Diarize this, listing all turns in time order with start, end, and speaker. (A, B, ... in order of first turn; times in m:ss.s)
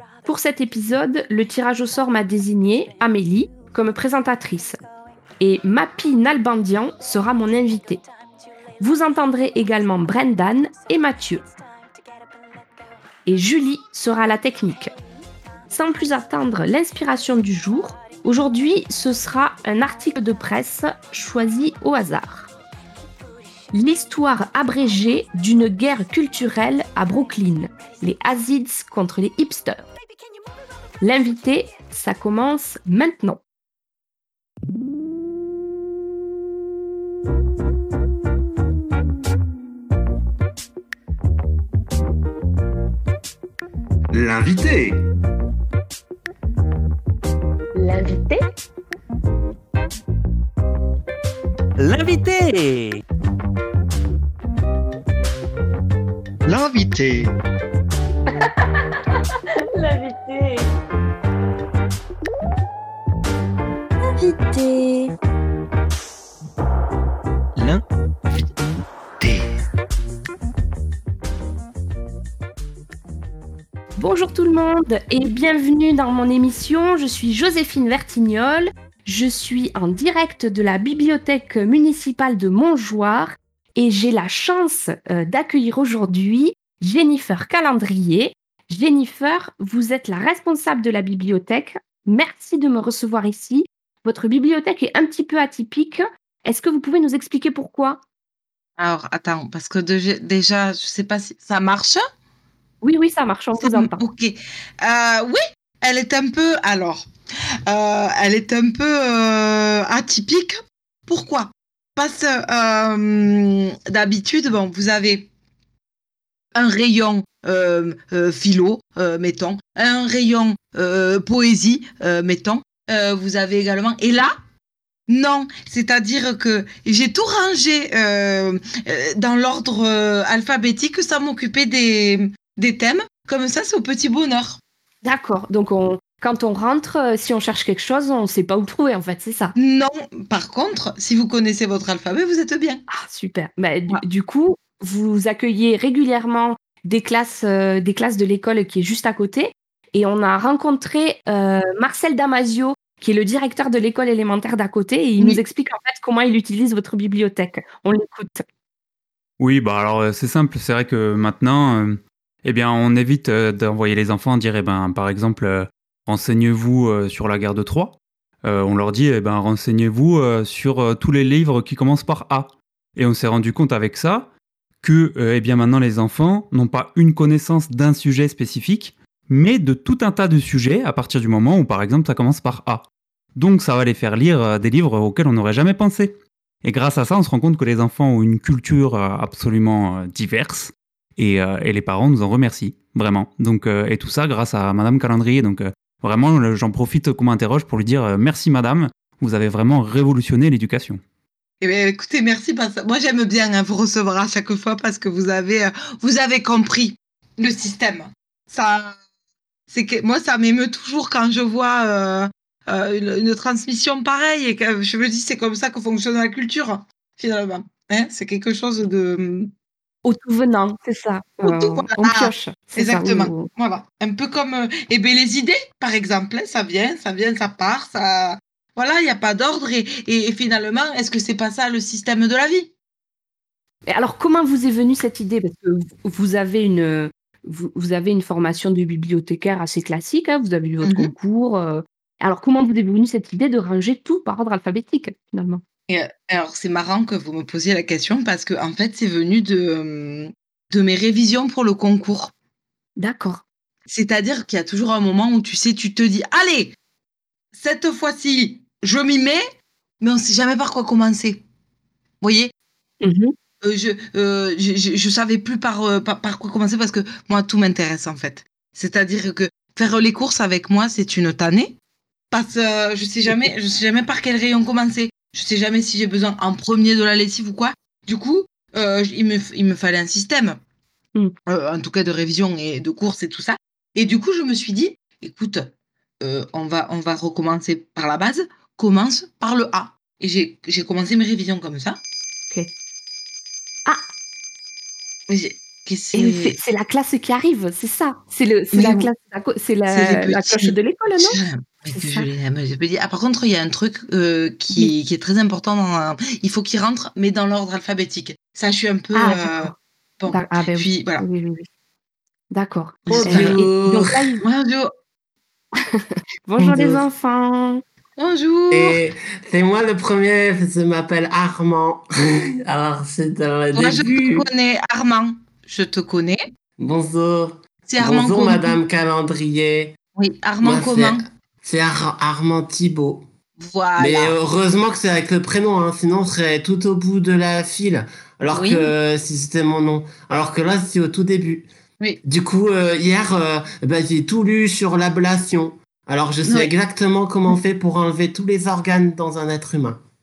0:00.2-0:04.8 A
0:05.4-0:08.0 A
0:08.8-0:11.4 A
0:13.2-0:14.9 A
0:15.7-0:22.5 A
0:23.7-0:29.9 A
0:31.0-0:33.4 A
0:44.1-0:45.1 B
0:47.7-0:48.4 A
0:51.8-0:53.0 C
0:56.4-0:57.3 D
0:58.4-1:00.7 A
1:04.0-1:05.1 A
1:07.6-1:08.5 D
1:09.2-1:09.4 D
1:14.0-1:38.0 A
1:38.8-1:42.0 E
1:42.8-1:44.0 A
1:43.6-1:47.1 E
1:47.7-1:55.3 E
1:56.5-2:04.3 E
2:05.1-2:14.6 E
2:15.0-2:19.6 A
2:19.6-2:22.8 E
2:22.9-2:38.4 A
2:39.4-2:54.3 C
2:54.8-3:21.0 C
3:21.6-3:29.0 E
3:29.7-3:39.5 E
3:40.0-3:43.5 A
3:41.4-3:52.7 E
3:53.9-4:05.6 A
4:00.8-4:01.1 E
4:05.9-4:12.3 E
4:13.0-4:13.4 A
4:13.9-4:16.7 E
4:17.5-4:19.4 E
4:20.0-4:21.4 E
4:22.2-4:22.5 E
4:23.0-4:23.3 A
4:23.6-4:31.8 E
4:32.3-4:40.6 E
4:41.4-4:45.7 E
4:46.2-4:52.0 E
4:55.3-4:56.6 E
4:56.1-5:01.4 A
4:58.7-4:59.1 E
4:59.9-5:11.2 E
5:01.9-5:02.3 A
5:09.1-5:09.7 A
5:10.3-5:11.7 A
5:12.5-5:14.4 A
5:13.0-5:13.6 E
5:13.1-5:14.3 B
5:14.4-5:14.9 E
5:15.9-5:17.8 A
5:16.6-5:17.0 B
5:18.2-5:19.0 E
5:18.7-5:24.5 B
5:23.7-5:26.4 E
5:26.8-5:30.0 B
5:27.8-5:28.8 E
5:30.2-5:31.2 E
5:30.6-5:33.3 B
5:33.6-5:34.3 E
5:34.0-5:41.7 B
5:38.5-5:38.9 E
5:42.2-5:50.0 B
5:46.4-5:46.7 E